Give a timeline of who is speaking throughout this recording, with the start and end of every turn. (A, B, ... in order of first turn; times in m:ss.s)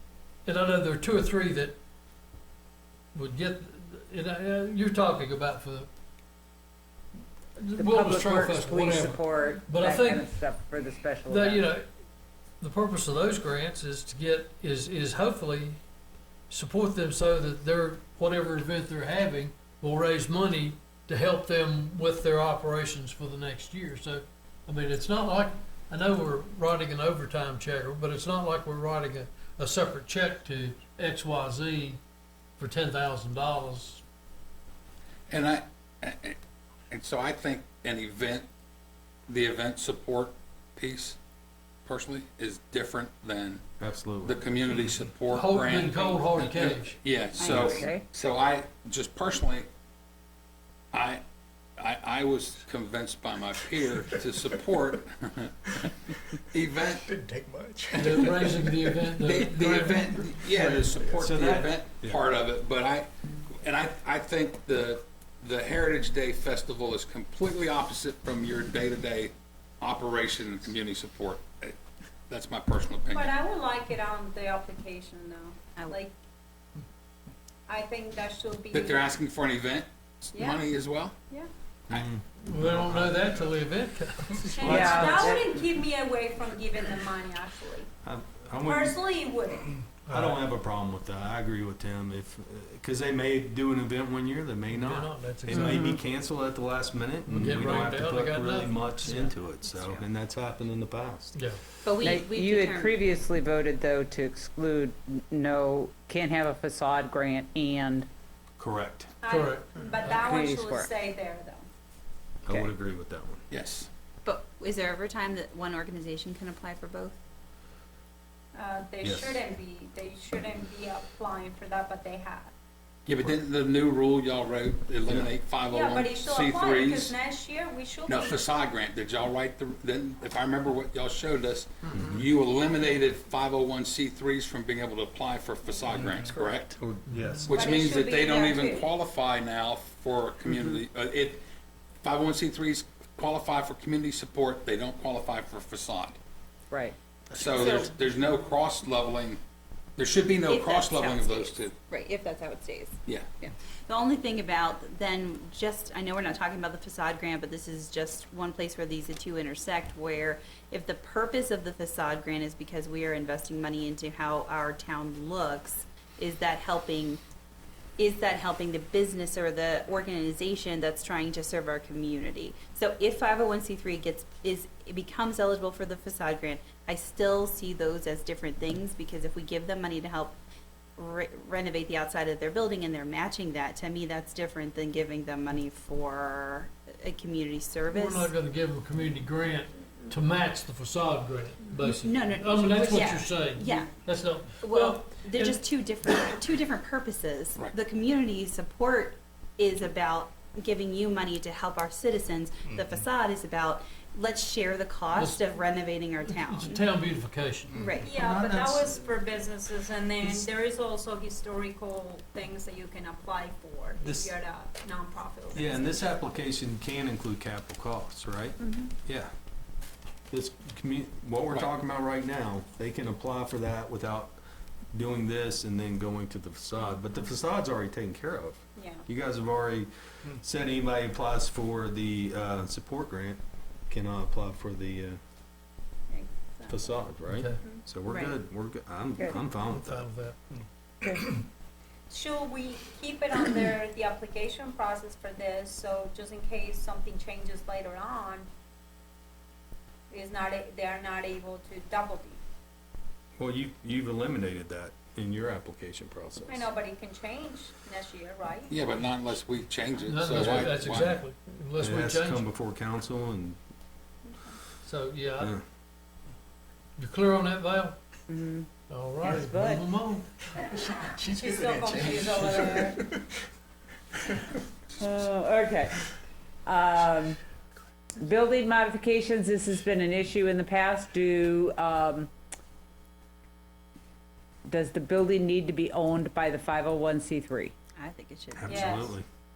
0:00.4-0:01.8 A
0:03.1-0:05.9 A
0:07.6-0:10.3 A
0:07.8-0:11.6 B
0:11.3-0:11.9 A
0:12.6-0:15.8 A
0:16.5-0:32.0 A
0:32.6-0:34.0 A
0:35.3-0:36.4 C
0:36.9-0:38.5 C
0:39.3-0:41.2 C
0:41.9-0:43.6 C
0:43.8-0:44.4 D
0:44.2-0:49.7 C
0:45.3-0:47.0 A
0:47.4-0:47.9 E
0:47.4-0:48.0 B
0:50.9-0:51.2 C
0:51.8-0:56.0 C
0:56.5-0:57.2 C
0:57.2-0:58.4 F
0:58.0-0:58.4 C
0:58.0-1:00.8 A
0:59.2-1:11.8 C
1:01.2-1:02.2 D
1:12.3-1:13.4 C
1:13.1-1:16.1 G
1:17.7-1:19.2 G
1:18.7-1:21.2 C
1:20.3-1:20.6 G
1:21.9-1:23.2 D
1:22.4-1:25.3 A
1:24.6-1:27.9 G
1:24.6-1:25.5 B
1:24.7-1:25.4 D
1:28.0-1:29.0 D
1:28.6-1:29.7 G
1:30.1-1:30.4 A
1:30.1-1:41.4 D
1:34.7-1:35.9 A
1:35.5-1:36.0 B
1:37.3-1:39.3 A
1:41.8-1:43.0 E
1:42.0-1:48.1 B
1:48.6-1:49.1 D
1:49.2-1:51.6 G
1:49.3-1:50.1 A
1:50.1-1:50.9 B
1:52.5-1:53.4 D
1:53.5-1:53.9 C
1:54.2-1:57.2 E
1:58.5-2:02.5 G
1:59.0-1:59.4 D
2:03.1-2:07.2 C
2:05.7-2:08.4 G
2:08.1-2:16.8 C
2:11.9-2:12.3 D
2:16.7-2:17.6 D
2:17.5-2:21.4 C
2:17.5-2:18.9 G
2:20.5-2:20.8 B
2:22.0-2:26.2 C
2:26.7-2:27.0 B
2:27.3-2:29.4 C
2:27.5-2:27.9 E
2:30.0-2:31.7 C
2:30.5-2:47.2 E
2:48.0-3:00.4 E
3:01.0-3:08.3 E
3:07.9-3:15.6 A
3:11.8-3:13.9 E
3:14.6-3:26.9 E
3:25.2-3:25.4 A
3:26.3-3:27.7 A
3:27.7-3:28.1 E
3:28.0-3:36.0 G
3:28.1-3:29.0 D
3:34.0-3:34.3 D
3:35.6-3:39.3 D
3:40.3-3:44.3 D
3:44.9-3:55.2 D
3:48.8-3:49.0 G
3:56.1-3:56.9 G
3:56.7-4:00.1 D
3:57.3-3:57.6 A
3:57.6-3:58.4 G
3:59.7-4:00.4 A
4:01.0-4:01.4 B
4:02.1-4:08.5 G
4:10.1-4:12.4 G
4:13.4-4:16.7 D
4:16.5-4:18.7 G
4:18.7-4:21.2 C
4:20.0-4:22.4 A
4:21.8-4:23.6 D
4:24.8-4:25.5 A
4:27.0-4:28.0 A
4:28.3-4:28.7 B
4:28.9-4:30.3 A
4:29.2-4:29.8 B
4:30.8-4:33.0 F
4:31.3-4:33.0 G
4:35.0-4:36.0 B
4:36.7-4:37.4 B
4:38.2-4:42.3 B
4:44.7-4:47.7 B
4:48.0-4:48.9 E
4:48.6-4:49.2 D
4:48.7-4:49.2 G